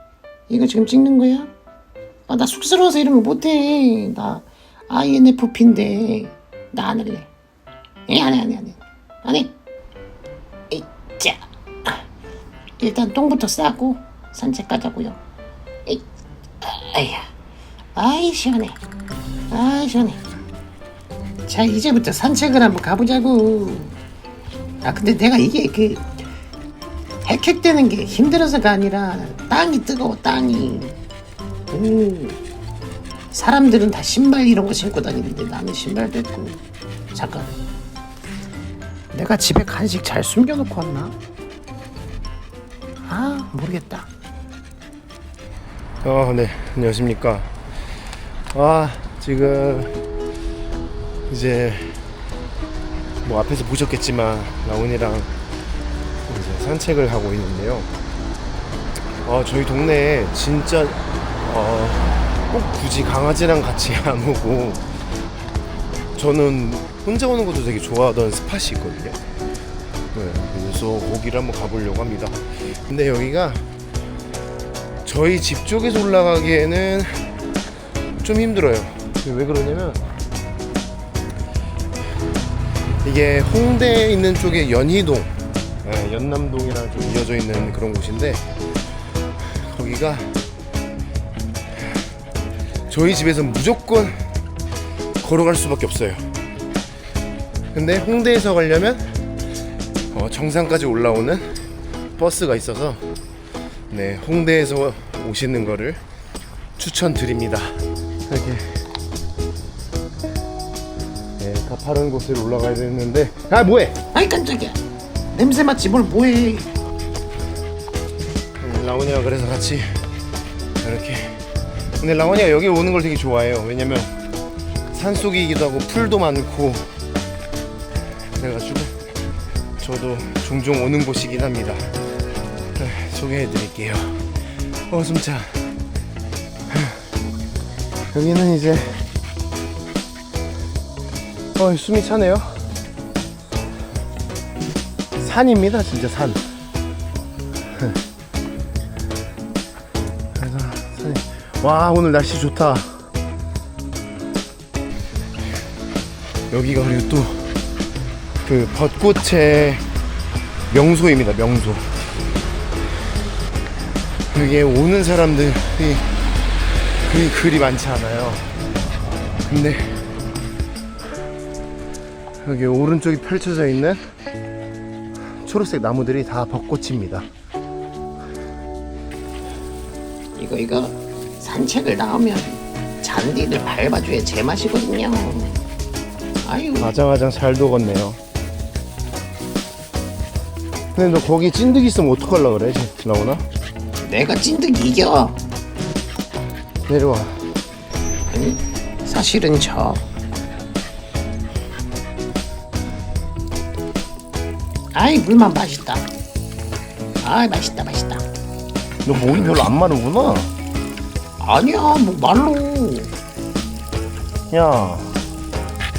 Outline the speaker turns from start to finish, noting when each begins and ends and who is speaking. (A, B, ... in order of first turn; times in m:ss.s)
0:00.5-0:01.5 A
0:02.3-0:07.3 A
0:08.1-0:09.5 A
0:10.7-0:12.0 A
0:12.8-0:15.2 A
0:16.6-0:17.3 A
0:18.0-0:18.8 A
0:19.5-0:20.2 A
0:21.5-0:24.0 A
0:24.8-0:26.1 A
0:27.2-0:31.0 A
0:31.7-0:32.4 A
0:33.3-0:36.6 A
0:37.1-0:37.5 A
0:39.1-0:41.2 A
0:43.0-0:44.1 A
0:46.0-0:47.5 B
0:48.5-0:50.0 B
0:51.3-0:52.0 B
0:53.2-0:55.3 B
0:56.3-0:57.9 B
0:59.2-1:04.8 B
1:06.2-1:09.2 B
1:10.1-1:13.7 B
1:15.0-1:17.3 B
1:18.2-1:20.0 B
1:23.0-1:28.4 B
1:29.5-1:30.3 B
1:32.9-1:34.2 B
1:35.2-1:36.3 B
1:37.7-1:39.1 B
1:40.1-1:41.5 B
1:42.2-1:43.0 B
1:43.9-1:46.0 B
1:46.8-1:48.8 B
1:51.4-1:54.0 B
1:54.1-1:54.8 A
1:55.3-1:56.8 A
1:58.6-2:00.0 B
2:00.8-2:01.4 B
2:02.0-2:04.1 B
2:04.9-2:06.9 B
2:08.4-2:08.9 B
2:09.8-2:11.9 B
2:12.8-2:14.2 B
2:14.9-2:15.6 B
2:16.7-2:17.0 B
2:18.1-2:19.1 B
2:21.6-2:22.7 B
2:25.2-2:26.4 B
2:30.4-2:33.0 B
2:36.5-2:37.5 B
2:38.4-2:39.8 B
2:40.7-2:41.9 B
2:44.3-2:46.1 B
2:47.0-2:48.5 B
2:49.4-2:50.1 B
2:52.4-2:54.1 B
2:55.4-2:57.3 B
3:00.4-3:05.6 A
3:06.4-3:06.9 A
3:06.8-3:08.2 B
3:11.0-3:13.4 B
3:14.0-3:15.4 A
3:16.9-3:17.4 B
3:18.3-3:20.0 A
3:24.9-3:26.1 A
3:27.2-3:28.2 A
3:29.0-3:30.5 B
3:31.4-3:33.1 A
3:34.5-3:35.2 B